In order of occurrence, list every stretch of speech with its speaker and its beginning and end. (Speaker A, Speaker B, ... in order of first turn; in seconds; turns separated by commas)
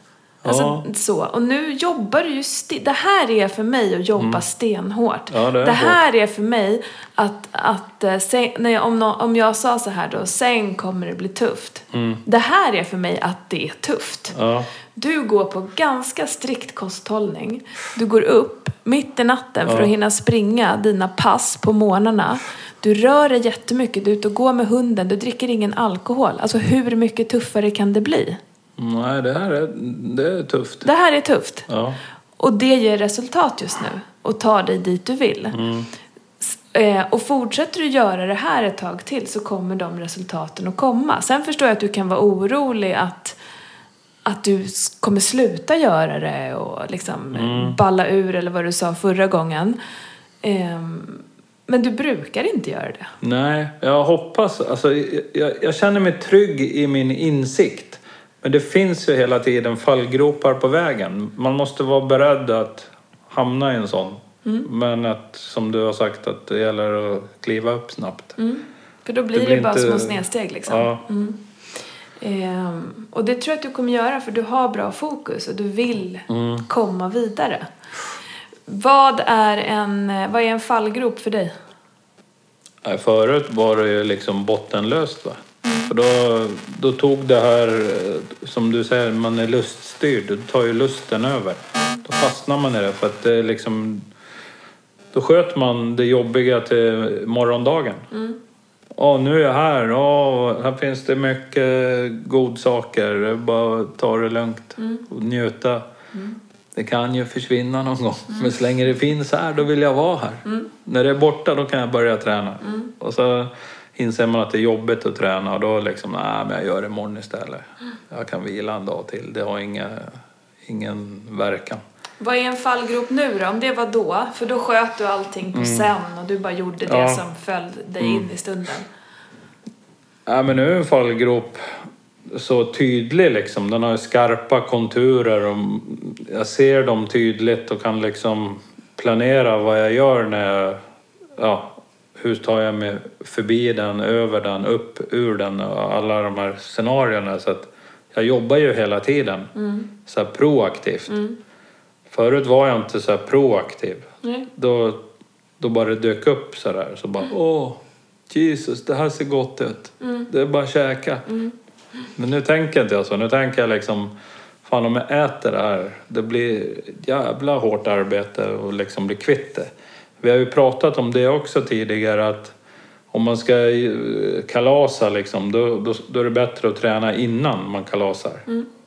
Speaker A: 0.4-0.8, Speaker B: 0.5-14.3, Speaker A: 4.2-4.4, Speaker A: 5.3-6.0, Speaker A: 11.9-12.2, Speaker A: 14.3-14.7, Speaker B: 14.9-28.4, Speaker A: 19.6-19.9, Speaker A: 28.8-30.9, Speaker B: 30.8-31.7, Speaker A: 31.7-32.0, Speaker B: 32.4-35.5, Speaker A: 35.5-35.9, Speaker B: 36.4-43.4, Speaker B: 44.2-49.8, Speaker A: 47.3-47.8, Speaker B: 50.4-53.1, Speaker A: 53.2-68.4, Speaker B: 68.4-71.4, Speaker A: 69.3-71.0, Speaker B: 72.2-77.7, Speaker A: 76.3-76.7, Speaker B: 78.7-81.5, Speaker A: 82.8-94.0, Speaker B: 85.6-85.9, Speaker B: 91.8-92.0, Speaker A: 95.1-98.1, Speaker B: 98.1-98.4, Speaker A: 99.0-105.9, Speaker A: 106.7-121.8, Speaker B: 122.2-128.9, Speaker A: 125.5-125.9, Speaker A: 126.8-127.2, Speaker A: 128.0-128.3, Speaker A: 130.3-131.6, Speaker A: 132.3-140.8, Speaker A: 141.4-149.5, Speaker B: 149.6-149.9, Speaker A: 150.0-151.2, Speaker B: 151.1-151.4, Speaker A: 152.1-155.0, Speaker B: 154.2-154.5, Speaker A: 155.6-161.3, Speaker B: 160.0-160.3, Speaker A: 162.2-164.1, Speaker A: 164.6-169.7, Speaker A: 170.2-172.5, Speaker A: 173.1-178.5